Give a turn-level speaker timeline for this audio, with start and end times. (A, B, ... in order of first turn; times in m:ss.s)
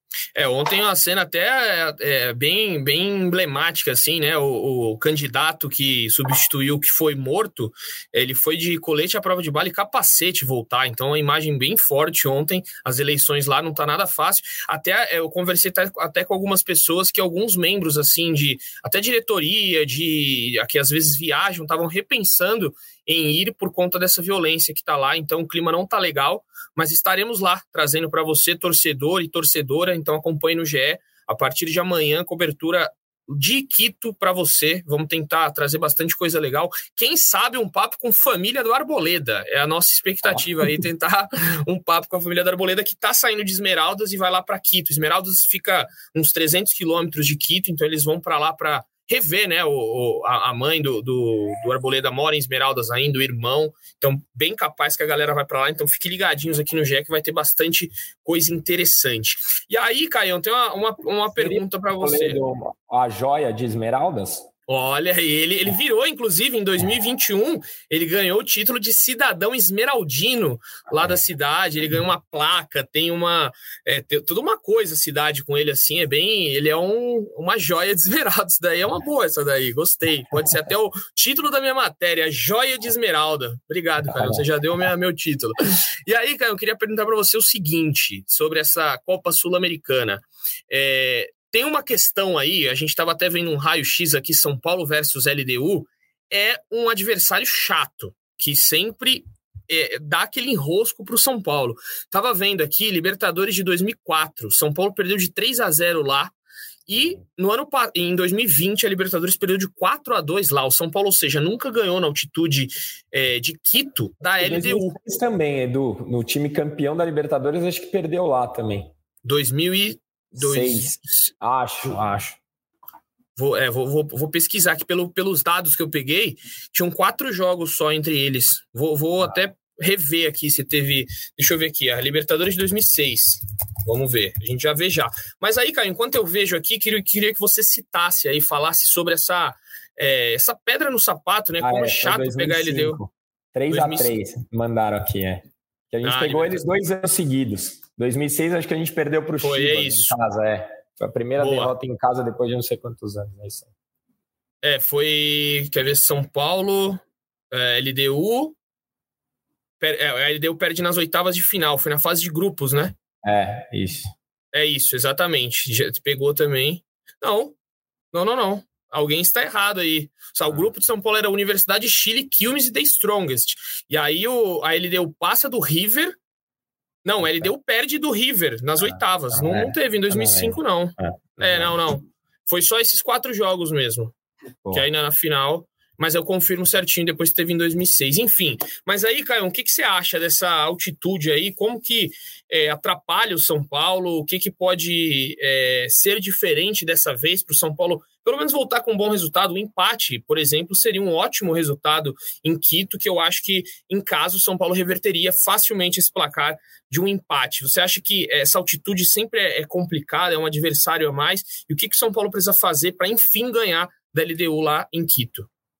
0:00.3-1:02.4 A
1:01.3-1:04.5 B
1:04.7-1:46.3 A
1:24.1-1:24.4 B
1:46.9-1:54.9 A
1:54.4-1:58.9 B
1:59.2-2:01.3 A
2:00.3-2:02.4 B
2:03.4-2:23.0 A
2:21.6-2:33.7 B
2:23.7-2:24.1 A
2:26.0-2:26.7 A
2:29.4-2:30.2 A
2:31.4-2:31.7 A
2:34.6-2:38.6 A
2:39.8-2:43.0 A
2:43.2-2:44.1 B
2:44.5-2:47.5 A
2:48.1-2:56.2 A
2:57.0-3:04.1 A
2:58.8-3:01.8 B
3:04.7-3:35.5 A